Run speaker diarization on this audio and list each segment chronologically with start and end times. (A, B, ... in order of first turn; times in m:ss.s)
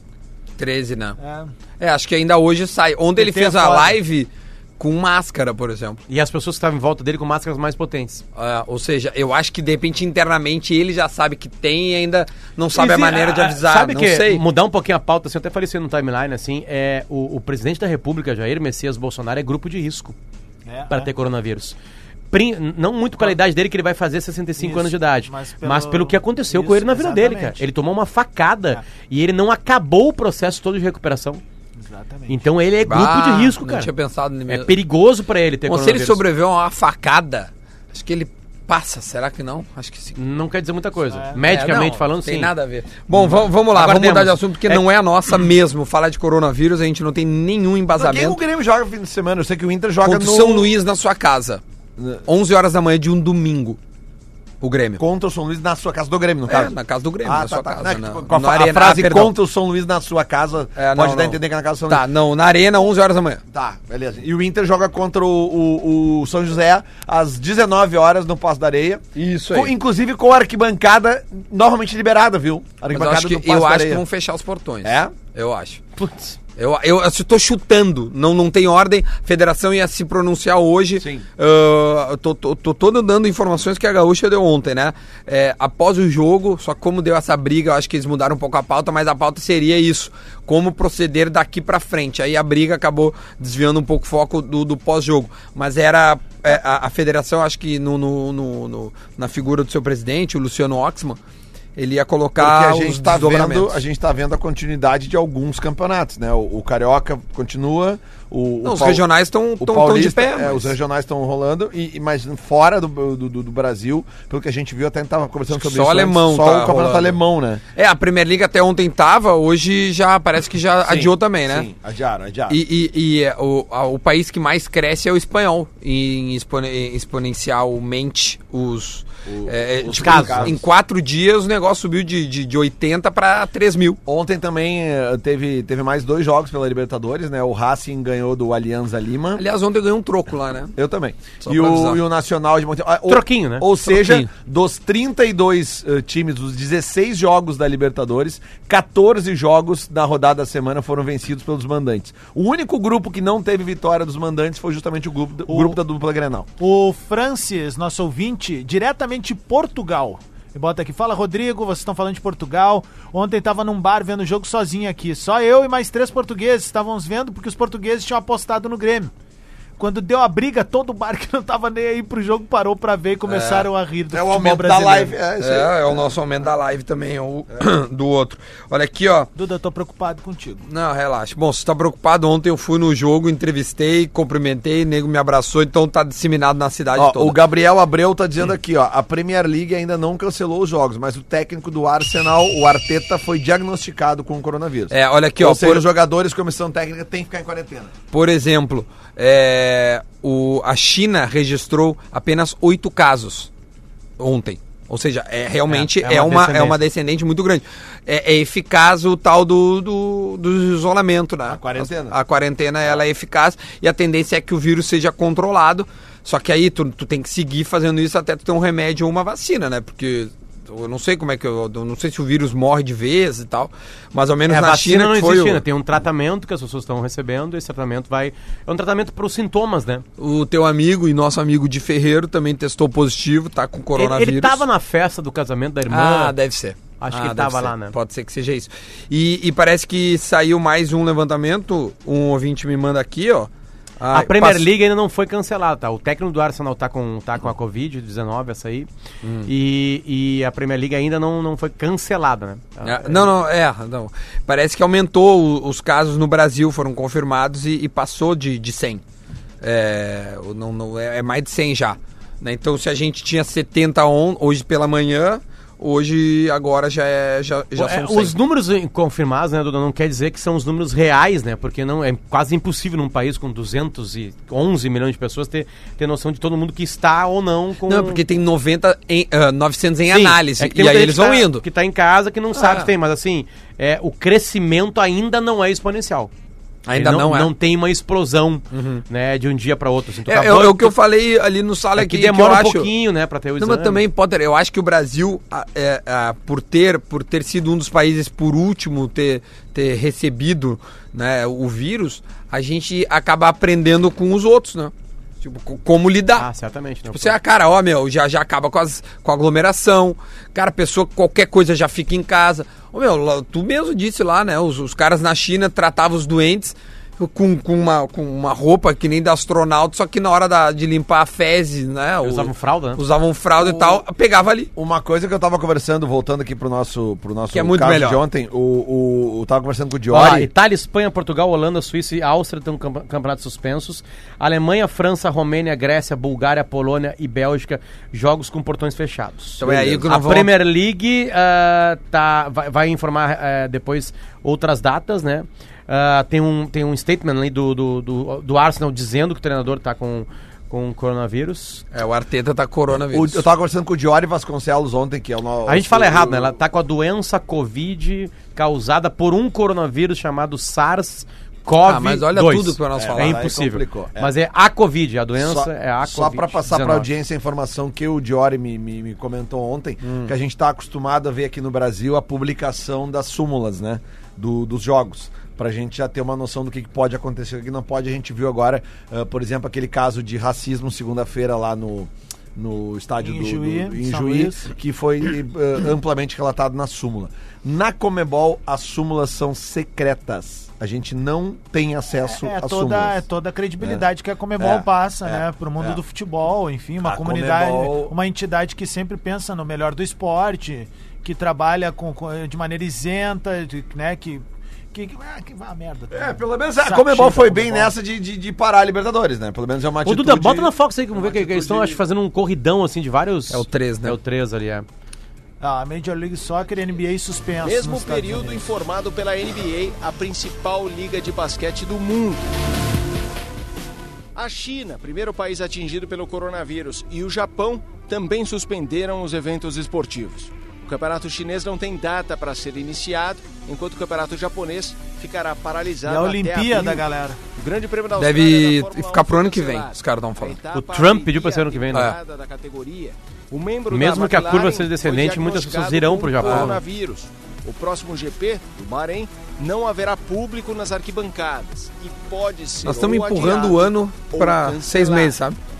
0:00.6-0:01.2 A
0:01.2-0:01.5 B
0:01.8-0:06.0 A
0:03.2-0:04.0 B
0:06.1-0:08.2 C
0:08.4-0:14.4 A
0:12.7-0:20.2 C
0:20.7-0:21.1 B
0:20.9-0:21.8 C
0:22.3-0:31.4 C
0:24.6-0:27.6 B
0:31.8-0:32.4 B
0:32.3-0:33.9 C
0:32.8-0:34.8 A
0:34.5-0:36.2 C
0:35.7-0:40.2 A
0:40.2-0:42.5 C
0:41.1-0:41.9 B
0:41.4-0:48.4 A
0:43.2-0:44.9 C
0:48.0-0:50.7 D
0:50.0-0:51.6 A
0:52.2-0:53.8 A
0:54.6-0:55.0 A
0:55.0-1:02.1 D
0:56.5-0:59.3 A
1:00.8-1:03.4 A
1:03.5-1:14.0 D
1:09.2-1:09.7 A
1:12.9-1:15.8 A
1:14.8-1:15.1 D
1:16.0-1:16.4 C
1:16.6-1:41.2 A
1:21.0-1:21.3 D
1:41.8-1:43.8 A
1:42.4-1:49.0 D
1:48.6-1:50.7 A
1:49.6-1:57.6 D
1:55.5-1:57.2 A
1:57.8-2:01.7 A
2:00.9-2:02.6 D
2:02.5-2:14.0 A
2:09.3-2:10.6 D
2:09.9-2:10.5 C
2:14.1-2:19.4 D
2:19.4-2:20.8 A
2:20.8-2:36.5 D
2:21.4-2:22.0 A
2:23.1-2:23.6 C
2:23.8-2:24.3 A
2:35.5-2:35.8 B
2:36.6-2:49.1 B
2:49.8-2:55.2 B
2:53.3-2:53.7 A
2:54.1-2:56.0 D
2:55.4-2:59.3 A
2:59.4-3:00.6 B
3:00.7-3:07.4 A
3:07.0-3:17.9 D
3:14.9-3:15.9 A
3:18.1-3:23.5 A
3:24.2-3:45.6 A
3:25.7-3:26.8 C
3:31.5-3:32.2 D
3:44.5-3:50.0 C
3:50.2-3:54.6 A
3:54.0-3:56.4 C
3:55.9-4:04.7 A
3:57.0-3:57.9 C
4:04.1-4:08.9 C
4:09.2-4:09.5 A
4:09.4-4:13.3 C
4:12.8-4:19.0 A
4:19.6-4:28.4 A
4:27.8-4:38.2 C
4:37.9-4:41.6 A
4:40.1-4:46.3 C
4:42.5-4:42.9 A
4:46.9-4:47.5 A
4:46.9-4:51.0 C
4:48.7-4:49.0 A
4:50.3-4:52.9 A
4:52.0-4:54.0 C
4:53.6-5:06.5 A
5:06.4-5:07.4 C
5:07.1-5:24.7 A
5:22.2-5:23.0 C
5:23.7-5:24.0 D
5:24.8-5:30.5 D
5:27.5-5:28.2 A
5:30.1-5:51.8 C
5:39.6-5:40.5 A
5:39.6-5:40.1 D
5:51.9-5:53.5 A
5:53.1-5:56.6 D
5:55.7-6:07.1 C
6:01.8-6:03.5 A
6:03.0-6:04.3 D
6:05.4-6:33.2 D
6:10.0-6:10.3 A
6:23.2-6:24.7 B
6:32.3-6:47.9 B
6:33.8-6:34.0 D
6:34.6-6:36.0 D
6:37.0-6:38.1 D
6:46.1-6:52.0 D
6:50.0-6:54.9 C
6:53.5-6:54.2 A
6:55.6-6:58.6 B
6:57.6-7:02.5 E
7:04.4-7:17.0 E
7:16.1-7:17.4 B
7:17.6-7:35.4 E
7:18.2-7:20.6 A
7:20.7-7:22.1 C
7:23.9-7:26.8 C
7:26.4-7:26.8 A
7:32.8-7:35.6 A